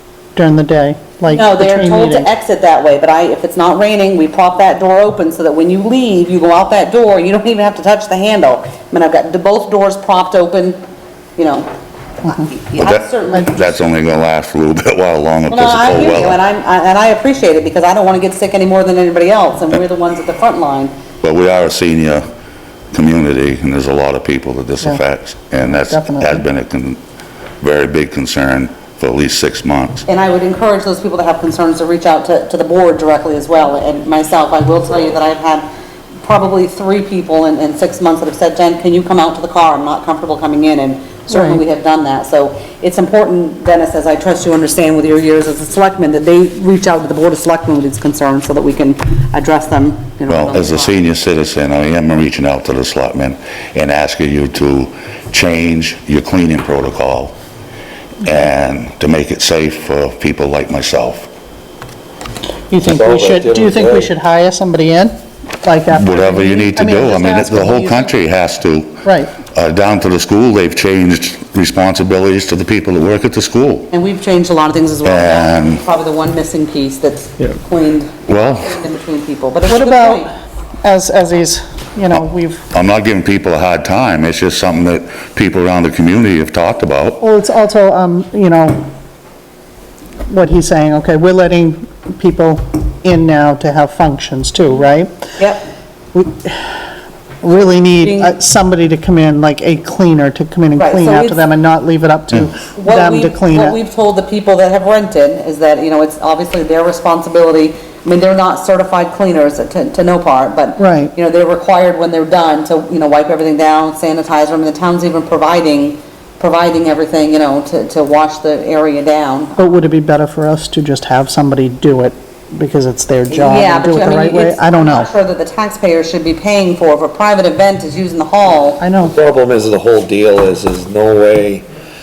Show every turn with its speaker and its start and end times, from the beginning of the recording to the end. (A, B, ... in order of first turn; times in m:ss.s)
0:00.4-0:02.3 A
0:01.3-0:10.8 B
0:11.4-0:11.7 B
0:12.2-0:13.7 B
0:12.8-0:16.4 C
0:15.5-0:20.9 B
0:21.2-0:22.2 C
0:22.9-0:27.0 C
0:25.9-0:26.4 A
0:27.6-0:30.0 C
0:30.1-0:35.7 B
0:36.2-0:51.0 B
0:41.3-0:41.6 A
0:50.3-0:57.4 C
0:58.2-1:01.3 C
1:02.7-1:08.1 A
1:02.8-1:04.1 D
1:05.9-1:13.9 C
1:09.0-1:09.3 A
1:13.9-1:20.3 B
1:15.0-1:15.8 C
1:18.3-1:18.8 C
1:19.7-1:20.3 A
1:20.8-1:22.6 A
1:22.7-1:27.2 C
1:27.2-1:28.9 A
1:30.3-1:35.2 A
1:35.4-1:35.6 B
1:36.1-1:36.8 A
1:37.4-1:43.8 A
1:38.0-1:38.4 B
1:40.8-1:41.4 B
1:42.8-1:59.6 B
1:50.8-1:51.1 A
1:59.6-2:05.1 A
2:03.3-2:08.8 B
2:08.8-2:09.2 A
2:09.0-2:11.7 D